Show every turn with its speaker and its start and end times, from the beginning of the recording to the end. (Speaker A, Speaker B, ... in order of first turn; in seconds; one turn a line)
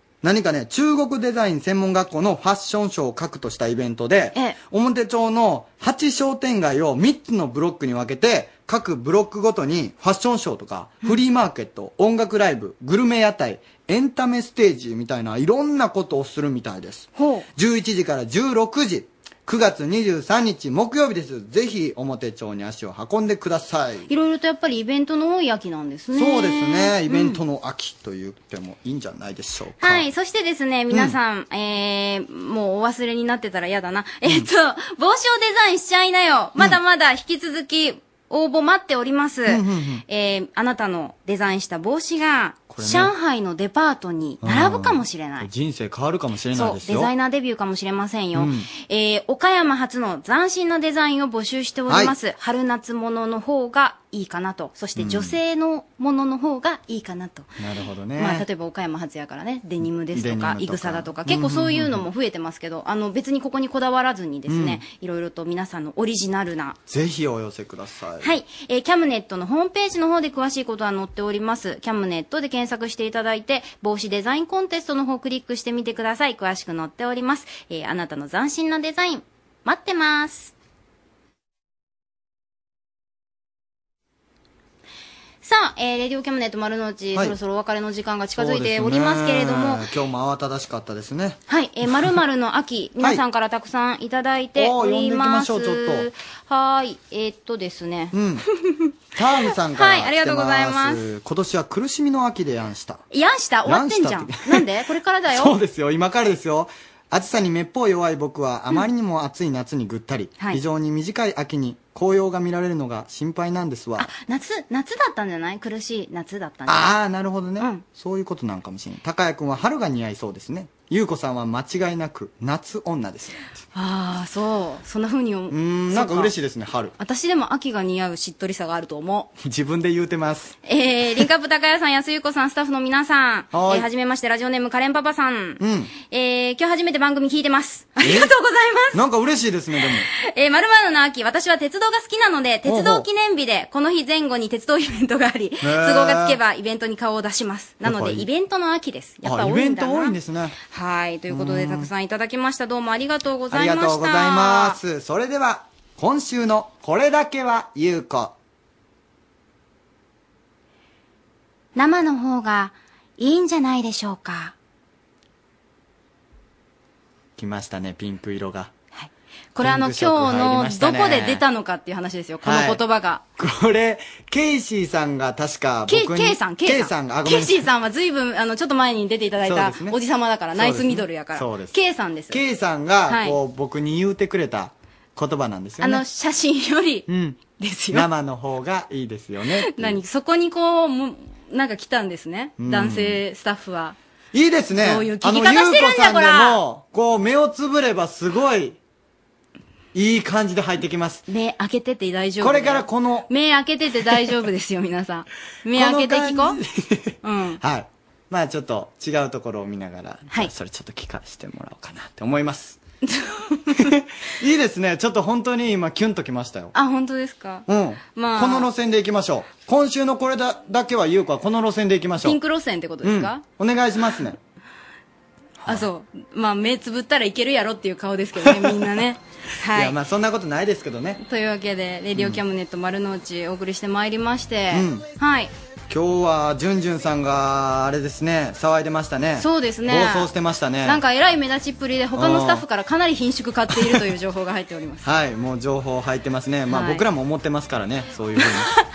Speaker A: 0.2-24.1
Speaker B: 17.2-17.4
Speaker B: 24.1-27.4
Speaker A: 26.1-30.1
Speaker B: 29.8-45.5
Speaker A: 39.5-40.0
Speaker A: 42.7-43.1
Speaker A: 44.4-47.1
Speaker B: 46.5-57.5
Speaker A: 48.4-48.7
Speaker A: 51.9-52.1
Speaker A: 55.0-55.4
Speaker A: 57.6-58.5
Speaker B: 58.2-66.8
Speaker A: 60.1-62.0
Speaker A: 64.5-64.8
Speaker A: 66.9-68.3
Speaker B: 68.2-80.5
Speaker B: 85.4-89.8
Speaker A: 88.4-92.2
Speaker B: 91.5-98.1
Speaker A: 94.6-96.1
Speaker A: 98.1-98.4
Speaker A: 99.2-103.0
Speaker B: 99.7-101.0
Speaker B: 103.1-105.5
Speaker A: 103.7-104.6
Speaker A: 105.3-114.1
Speaker B: 114.0-116.9
Speaker A: 116.7-123.5
Speaker B: 123.7-126.3
Speaker A: 125.5-127.0
Speaker B: 127.0-129.3
Speaker A: 129.4-130.6
Speaker B: 130.7-139.0
Speaker A: 133.5-133.9
Speaker A: 135.6-135.9
Speaker A: 138.0-138.3
Speaker A: 138.9-140.1
Speaker B: 140.1-150.2
Speaker A: 142.7-143.1
Speaker A: 145.6-146.4
Speaker A: 147.8-148.3
Speaker A: 149.2-150.6
Speaker B: 150.7-154.8
Speaker A: 151.3-151.9
Speaker A: 153.5-158.3
Speaker B: 161.8-164.5
Speaker A: 167.4-168.7
Speaker B: 168.9-173.2
Speaker A: 169.6-171.4
Speaker A: 172.4-172.8
Speaker A: 173.4-177.7
Speaker B: 175.9-182.4
Speaker A: 179.4-180.0
Speaker A: 180.5-181.8
Speaker A: 182.3-186.0
Speaker B: 183.1-183.4
Speaker B: 185.8-188.1
Speaker A: 187.1-187.4
Speaker A: 187.9-190.0
Speaker B: 189.7-193.9
Speaker A: 192.6-193.2
Speaker A: 194.3-198.8
Speaker B: 194.8-196.6
Speaker A: 199.9-201.2
Speaker B: 201.3-206.6
Speaker A: 202.4-203.3
Speaker A: 205.7-212.8
Speaker B: 207.2-207.6
Speaker B: 213.1-213.9
Speaker A: 213.8-216.7
Speaker B: 216.7-218.7
Speaker A: 217.7-222.4
Speaker B: 222.2-223.4
Speaker A: 223.0-224.4
Speaker B: 225.7-229.9
Speaker A: 228.4-228.9
Speaker A: 229.7-231.2
Speaker B: 231.2-235.5
Speaker A: 232.2-232.4
Speaker A: 234.7-235.1
Speaker A: 235.9-241.0
Speaker B: 239.4-240.3
Speaker B: 240.8-245.1
Speaker A: 242.2-242.6
Speaker A: 243.7-244.0
Speaker A: 245.0-248.7
Speaker B: 246.7-247.0
Speaker B: 248.4-248.7